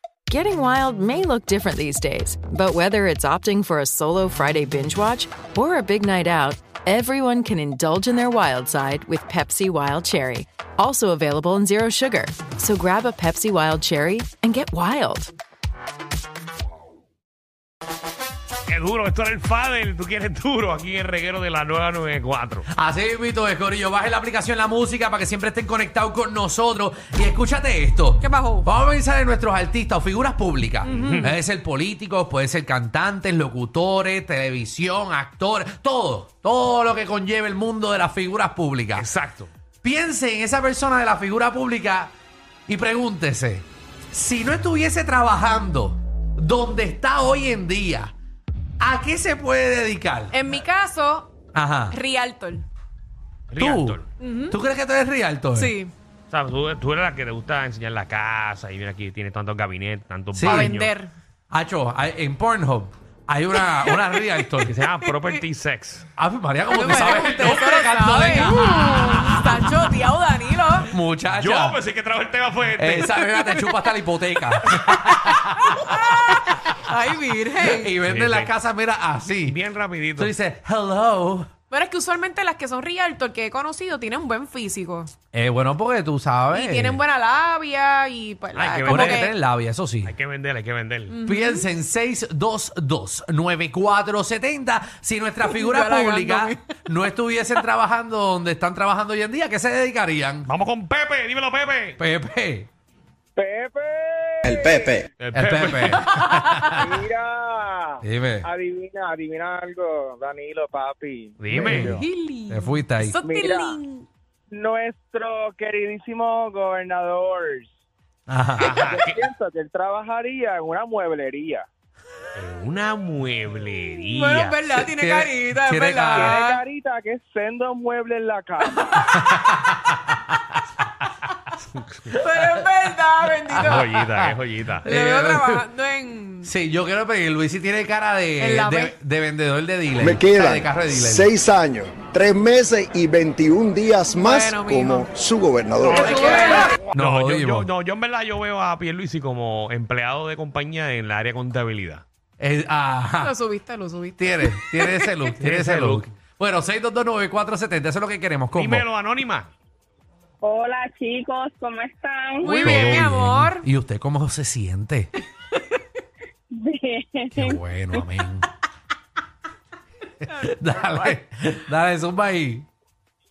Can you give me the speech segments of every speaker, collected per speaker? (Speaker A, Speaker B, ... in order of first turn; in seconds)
Speaker A: 0.3-15.3
Speaker B: 18.7-22.6, 30.9-31.3, 38.9-39.5, 53.5-54.1, 56.3-60.9, 64.7-66.1, 67.3-67.7, 71.3-73.2, 78.0-78.5, 79.5-80.3, 88.5-89.3, 90.0-91.2, 100.5-102.0, 105.2-106.0, 111.4-112.0, 118.6-119.2, 122.3-124.6, 131.7-132.1, 133.6-134.9, 145.8-152.0, 155.4-156.1, 158.5-159.5, 162.7-163.1
Speaker C: 22.7-39.0, 39.8-42.1, 42.7-48.1, 48.8-50.3, 51.5-52.0, 53.5-55.8, 60.3-60.7, 61.5-64.7, 66.2-69.6, 70.9-71.8, 72.8-76.6, 77.5-79.6, 80.2-81.5, 85.3-87.0, 88.8-90.1, 91.2-100.5, 102.0-102.7, 105.3-106.9, 108.0-108.5, 111.6-112.0, 112.5-113.2, 118.3-118.7, 124.7-126.4, 129.1-130.2, 133.5-134.3, 134.9-135.6, 136.4-141.3, 146.9-147.7, 152.4-153.3, 154.2-158.8, 162.5-165.1, 167.3-168.5, 170.2-172.7
Speaker D: 28.2-28.7, 30.8-31.3, 50.3-51.3, 51.9-52.6, 54.2-54.5, 55.5-55.9, 60.4-61.1, 66.7-70.9, 73.3-73.9, 74.7-77.9, 81.7-85.1, 86.5-89.3, 91.1-91.7, 95.4-96.6, 106.0-106.8, 111.8-114.0, 124.0-126.6, 128.8-129.5, 132.1-134.0, 134.8-136.5, 138.4-138.9, 144.1-145.1, 145.9-146.8, 153.2-155.3, 162.4-163.7, 170.4-171.1
Speaker E: 103.3-105.1, 106.6-112.0, 113.2-113.8, 114.5-117.7, 118.7-121.7, 126.1-129.1
Speaker F: 140.0-146.2
Speaker G: 160.4-162.6, 166.5-167.6